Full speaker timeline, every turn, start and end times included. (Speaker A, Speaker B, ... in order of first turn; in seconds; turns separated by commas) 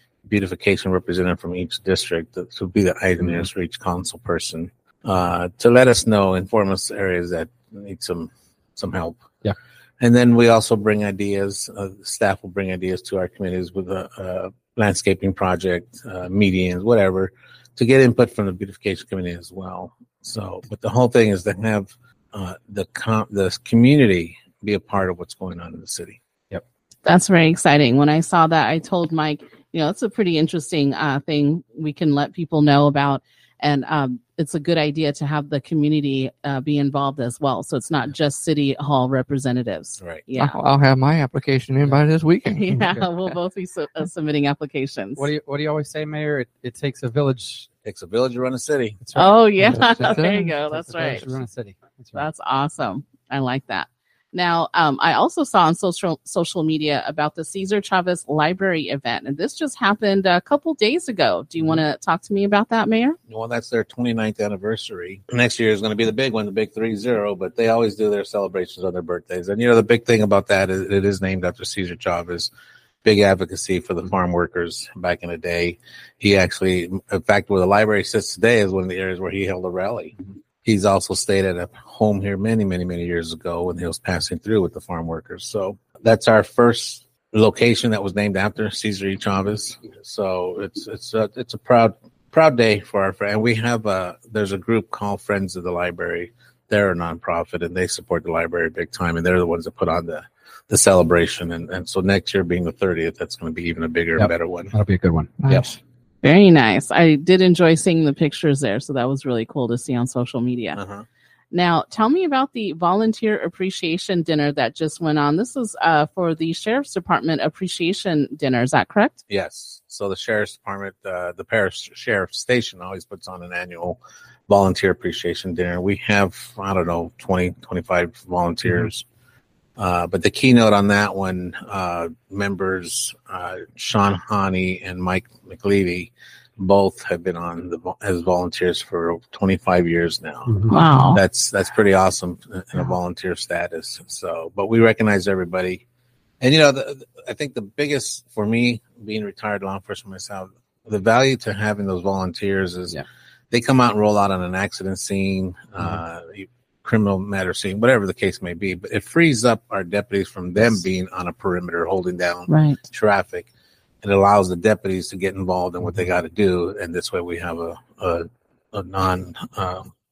Speaker A: 0.3-9.2, Speaker A: 10.0-26.2, Speaker B: 27.1-40.6, Speaker A: 40.0-40.2, Speaker C: 40.4-42.7, Speaker B: 42.5-45.3, Speaker D: 42.7-43.1, Speaker D: 45.2-47.7, Speaker A: 47.9-49.0, Speaker D: 49.0-50.1, Speaker B: 49.2-51.3, Speaker C: 49.6-50.5, Speaker D: 50.7-52.3, Speaker B: 52.1-63.2, Speaker A: 63.3-72.5, Speaker A: 73.0-104.7, Speaker D: 104.2-105.3, Speaker C: 105.4-105.8, Speaker B: 106.2-110.8, Speaker A: 110.8-111.0, Speaker B: 111.5-119.2, Speaker A: 119.3-129.1, Speaker A: 129.8-145.8, Speaker D: 140.5-140.8, Speaker B: 140.7-141.2, Speaker A: 146.4-153.0, Speaker A: 153.5-163.5, Speaker B: 162.5-162.8, Speaker A: 164.0-169.9